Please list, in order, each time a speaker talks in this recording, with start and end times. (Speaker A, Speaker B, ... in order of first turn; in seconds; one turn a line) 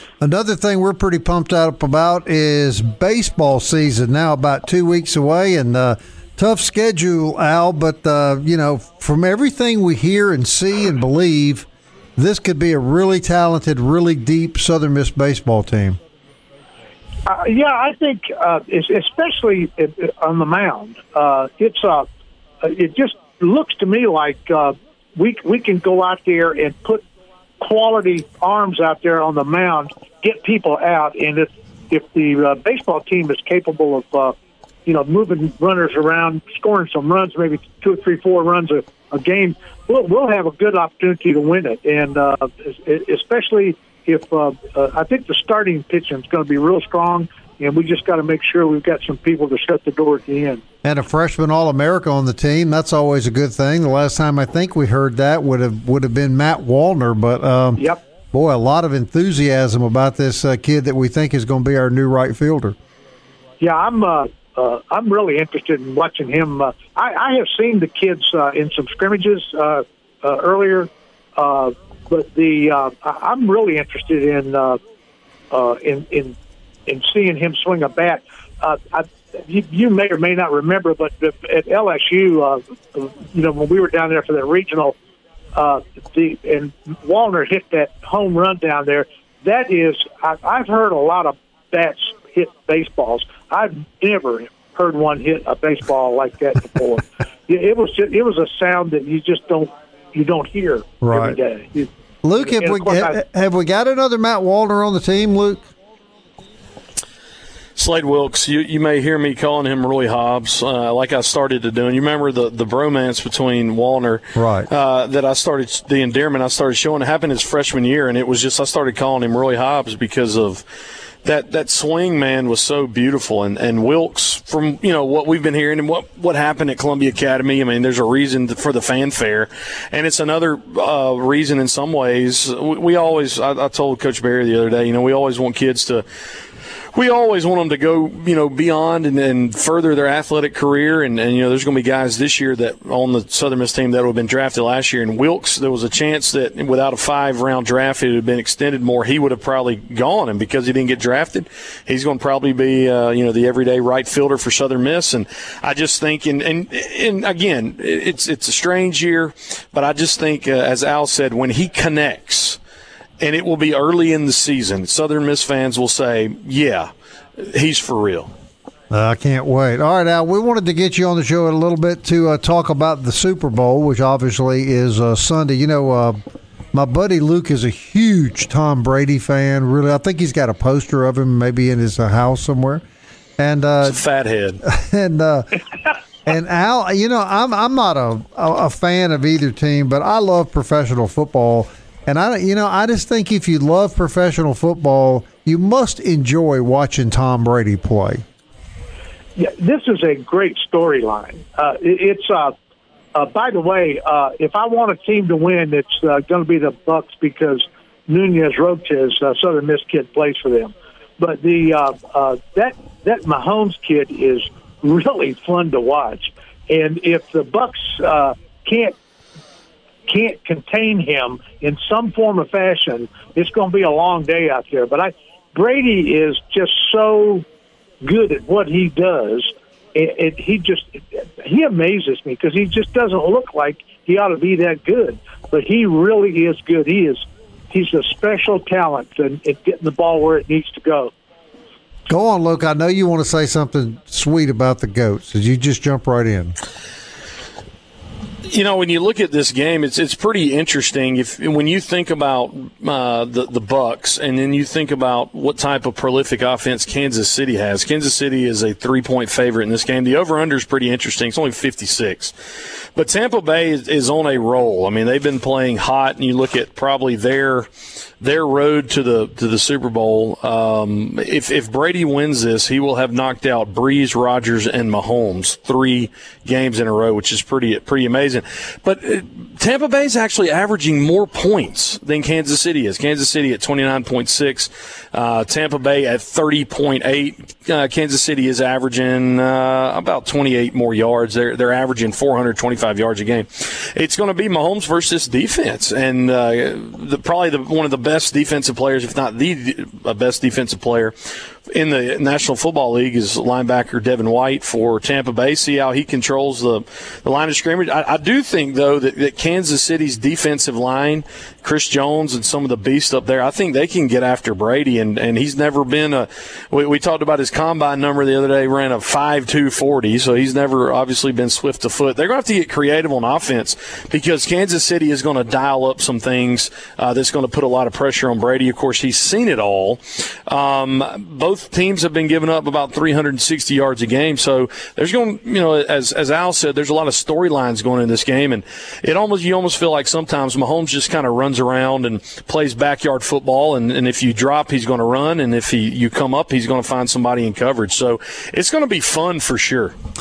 Speaker A: 0.2-11.7
Speaker A: 12.2-16.0
Speaker B: 17.3-22.1
Speaker B: 22.6-27.0
Speaker B: 27.6-50.6
Speaker A: 50.8-62.8
Speaker B: 63.6-74.8
Speaker B: 75.5-76.3
Speaker B: 76.9-84.9
Speaker B: 85.5-103.2
Speaker A: 101.0-101.4
Speaker A: 102.2-105.6
Speaker C: 107.8-120.6
Speaker A: 114.3-114.7
Speaker C: 121.2-136.0
Speaker C: 136.9-162.6
Speaker C: 163.2-168.3
Speaker A: 168.9-176.2
Speaker A: 176.7-182.8
Speaker A: 183.4-184.0
Speaker C: 183.8-184.6
Speaker A: 184.6-185.6
Speaker A: 186.2-198.2
Speaker B: 199.3-202.5
Speaker B: 203.1-218.9
Speaker B: 220.1-227.4
Speaker B: 228.0-241.1
Speaker A: 242.1-246.5
Speaker C: 248.4-262.3
Speaker C: 262.9-267.7
Speaker C: 268.2-301.1
Speaker C: 301.7-349.9